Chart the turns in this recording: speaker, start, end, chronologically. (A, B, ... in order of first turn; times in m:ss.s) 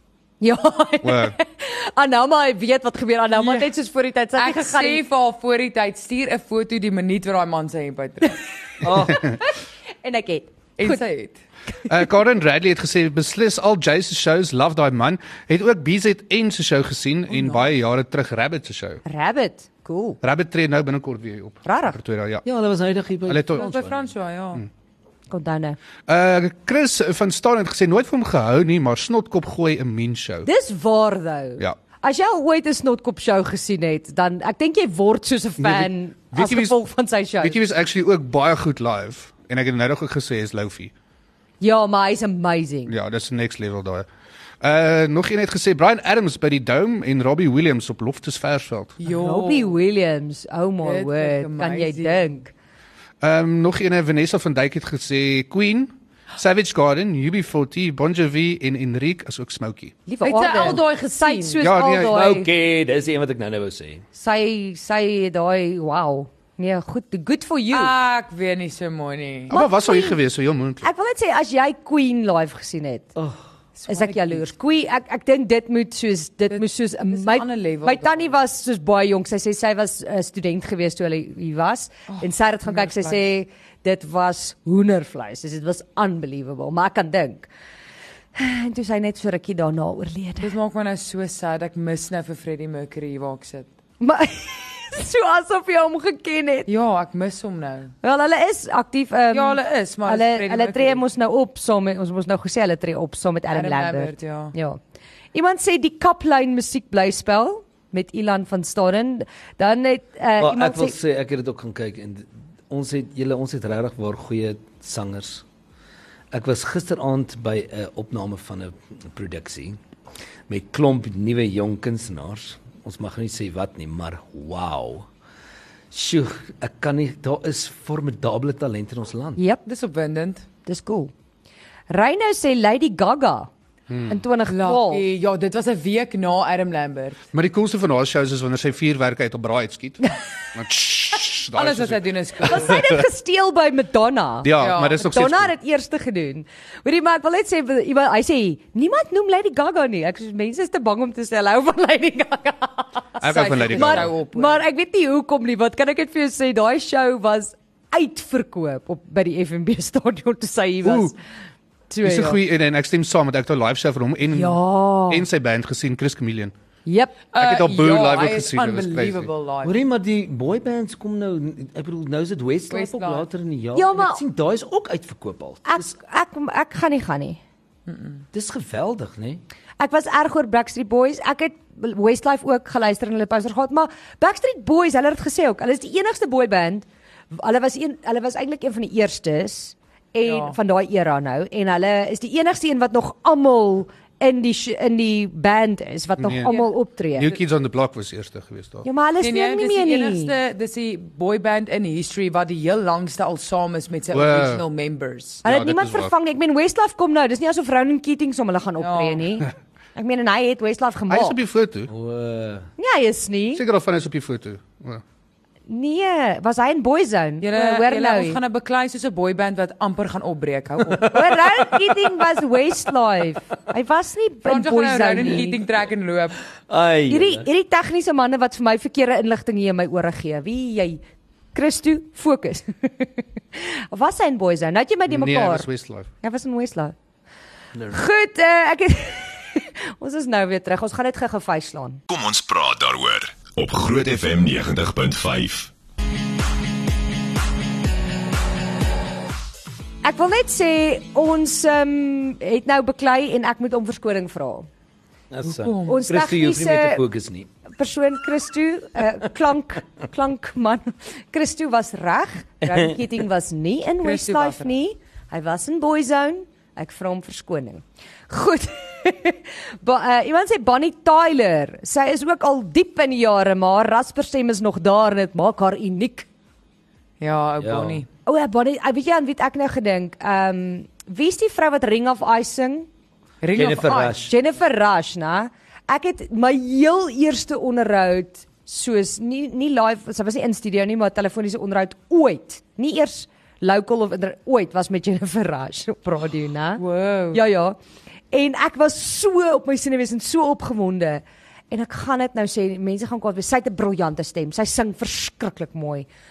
0:00.4-0:05.0 A
0:01.0-0:01.3 B
0:03.3-0:03.7 C
0:04.4-0:08.4 C
0:08.8-0:09.2 D
0:08.9-0:11.0 A
0:10.8-0:11.4 C
0:11.9-0:19.0 B
0:17.3-0:17.7 C
0:19.0-0:20.2 A
0:20.2-0:22.4 B
0:21.6-0:22.0 A
0:22.4-0:24.1 D
0:23.3-0:23.7 B
0:23.5-0:24.6 C
0:25.3-0:25.8 A
0:26.1-0:30.5 B
0:30.4-0:37.6 A
0:35.6-0:36.8 B
0:37.4-0:40.9 B
0:41.6-0:42.9 A
0:42.9-0:44.0 B
0:44.6-0:49.0 B
0:49.0-0:49.8 C
0:49.1-0:52.5 A
0:50.8-0:52.2 C
0:53.2-1:00.0 B
1:00.0-1:02.5 A
1:00.2-1:01.6 C
1:01.6-1:02.2 B
1:01.9-1:04.0 D
1:04.1-1:07.9 A
1:07.7-1:09.5 C
1:09.5-1:10.9 B
1:09.5-1:10.2 A
1:10.8-1:13.1 A
1:13.2-1:13.4 D
1:13.8-1:14.4 C
1:13.9-1:27.5 A
1:16.5-1:18.3 C
1:22.1-1:23.2 C
1:28.3-1:30.5 A
1:30.4-1:33.7 C
1:34.0-1:36.7 A
1:36.7-1:38.0 C
1:38.0-1:44.8 A
1:39.3-1:41.0 C
1:43.5-1:44.5 C
1:45.3-1:51.0 A
1:50.4-1:55.4 D
1:56.3-1:59.8 D
2:00.5-2:05.1 D
2:05.9-2:09.4 D
2:09.4-2:09.6 A
2:09.6-2:10.4 C
2:10.6-2:11.1 A
2:11.9-2:13.5 A
2:13.9-2:14.2 B
2:14.1-2:15.0 A
2:14.5-2:17.2 C
2:17.3-2:20.0 B
2:20.5-2:23.0 B
2:21.5-2:22.8 C
2:22.4-2:41.2 A
2:24.4-2:25.5 B
2:24.6-2:25.0 C
2:33.2-2:34.1 B
2:33.2-2:34.6 C
2:40.8-2:41.1 B
2:41.9-2:42.4 A
2:42.0-2:46.5 B
2:44.3-2:45.2 A
2:46.8-2:47.2 A
2:47.3-2:49.8 C
2:47.4-2:49.3 B
2:49.6-2:56.0 D
2:52.7-2:53.3 C
2:53.7-2:54.2 A
2:55.6-2:57.4 A
2:57.9-2:58.2 C
2:58.3-2:59.4 D
2:59.8-3:17.4 A
3:10.2-3:10.6 C
3:16.2-3:16.5 B
3:17.1-3:18.8 B
3:18.8-3:20.3 A
3:19.2-3:25.4 C
3:24.1-3:24.6 B
3:25.4-3:26.1 B
3:25.4-3:31.4 A
3:28.8-3:29.2 C
3:31.1-3:31.9 B
3:31.9-3:32.7 D
3:32.8-3:33.6 A
3:33.5-3:35.0 B
3:35.7-3:38.4 A
3:37.4-3:41.4 C
3:41.0-3:45.6 A
3:44.4-3:46.4 C
3:46.7-3:47.5 D
3:47.1-3:51.0 A
3:51.5-3:55.7 A
3:55.1-3:56.1 B
3:56.2-3:56.9 A
3:57.9-4:02.0 A
4:02.1-4:05.7 E
4:10.0-4:14.7 A
4:15.3-4:17.5 D
4:15.4-4:16.0 C
4:15.8-4:17.0 A
4:17.7-4:36.3 A
4:22.6-4:22.9 D
4:24.0-4:24.7 C
4:37.2-4:38.1 C
4:37.6-4:38.0 D
4:38.2-4:42.9 A
4:43.4-4:44.2 C
4:43.6-4:44.3 D
4:44.2-4:57.8 A
4:56.8-4:57.4 C
4:58.3-5:06.1 A